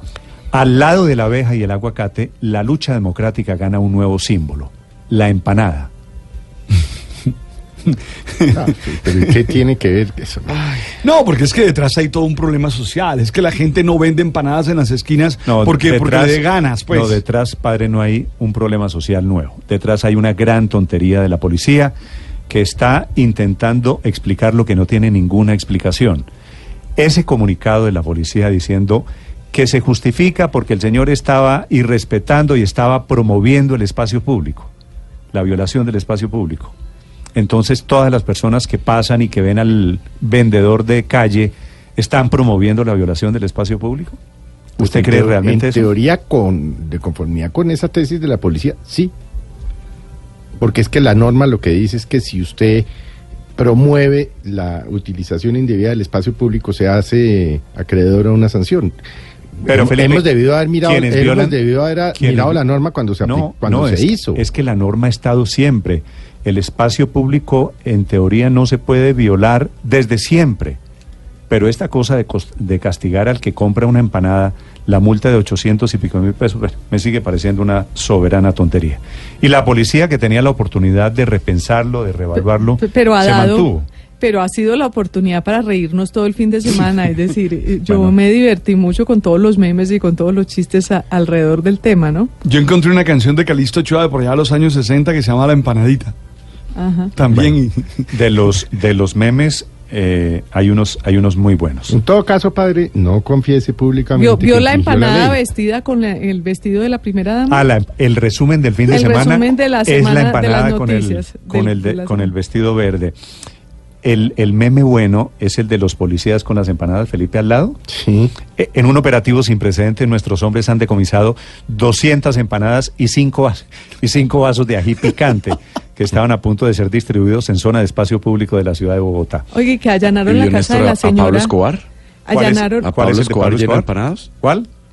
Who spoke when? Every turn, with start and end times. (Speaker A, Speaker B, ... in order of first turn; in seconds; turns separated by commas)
Speaker A: 0.5-5.9, Speaker B: 8.5-10.8, Speaker C: 11.0-17.2, Speaker A: 15.4-21.9, Speaker A: 22.5-26.3, Speaker A: 27.0-34.7, Speaker A: 35.3-36.7, Speaker A: 37.3-44.2, Speaker A: 44.8-45.9, Speaker B: 44.8-49.1, Speaker B: 50.6-52.9, Speaker B: 53.5-58.9, Speaker B: 59.6-64.4, Speaker A: 59.7-61.6, Speaker A: 62.1-62.6, Speaker A: 63.2-70.8, Speaker A: 71.5-83.9, Speaker D: 82.4-92.3, Speaker A: 87.8-88.2, Speaker C: 92.4-96.1, Speaker D: 96.7-97.1, Speaker C: 97.2-98.0, Speaker A: 97.3-97.5, Speaker A: 98.1-102.0, Speaker B: 101.9-105.4, Speaker D: 104.2-107.7, Speaker A: 107.5-113.1, Speaker D: 108.9-112.3, Speaker A: 114.0-117.8, Speaker B: 117.9-118.3, Speaker A: 118.5-129.4, Speaker D: 129.5-131.5, Speaker E: 130.2-131.8, Speaker D: 132.2-132.8, Speaker A: 132.3-133.9, Speaker E: 132.8-134.3, Speaker A: 134.4-134.7